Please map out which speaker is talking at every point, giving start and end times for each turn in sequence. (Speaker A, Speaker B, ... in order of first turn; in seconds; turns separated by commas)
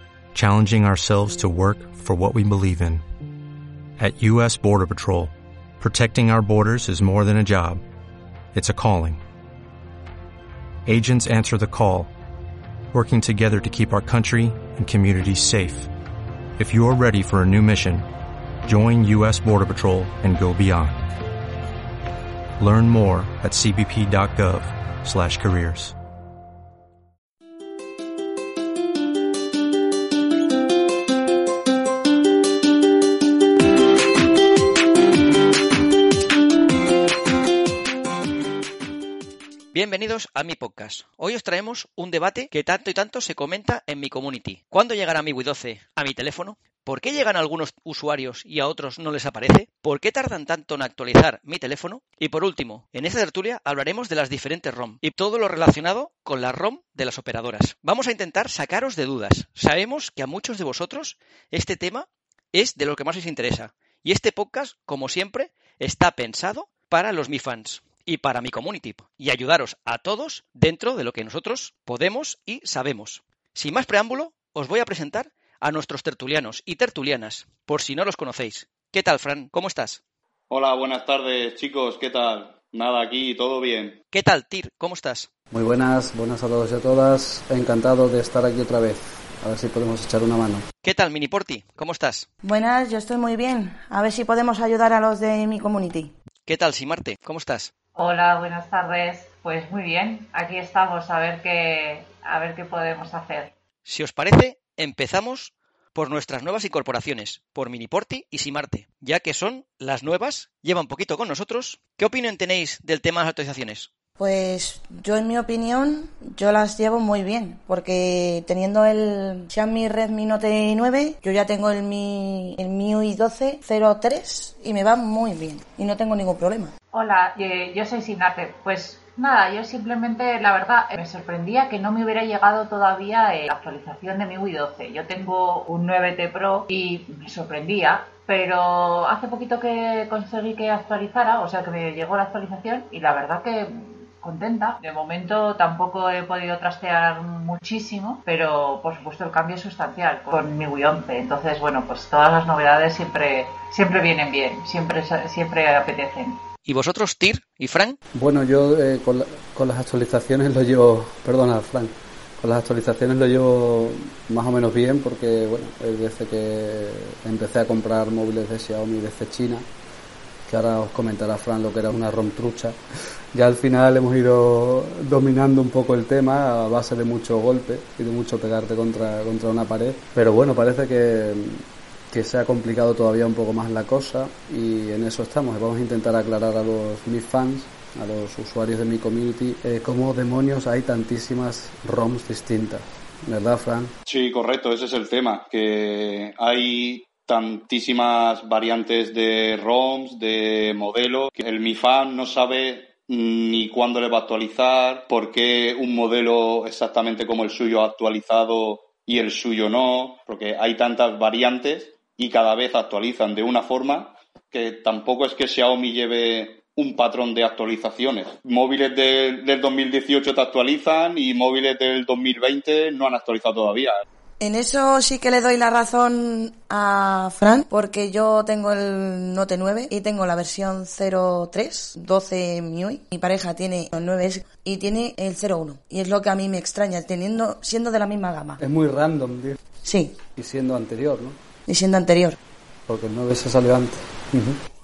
Speaker A: 0.3-3.0, Speaker A: 4.0-7.8, Speaker A: 8.5-9.2, Speaker A: 10.8-12.1, Speaker A: 12.9-15.9, Speaker A: 16.6-18.1, Speaker A: 18.6-21.1, Speaker A: 22.6-25.9, Speaker B: 39.7-80.0, Speaker C: 80.5-84.0, Speaker B: 84.1-85.3, Speaker D: 85.5-90.7, Speaker B: 90.8-92.3, Speaker E: 92.4-96.1, Speaker B: 96.5-97.7, Speaker F: 98.0-103.5, Speaker B: 103.8-113.9, Speaker E: 114.2-126.7, Speaker F: 126.9-156.4, Speaker B: 156.7-158.0, Speaker D: 158.1-169.6, Speaker D: 170.5-172.8, Speaker D: 173.3-193.9, Speaker C: 194.1-224.0, Speaker E: 224.4-238.6, Speaker D: 238.6-239.6, Speaker E: 239.8-240.2, Speaker D: 240.3-241.4, Speaker E: 241.7-242.3, Speaker D: 242.9-244.6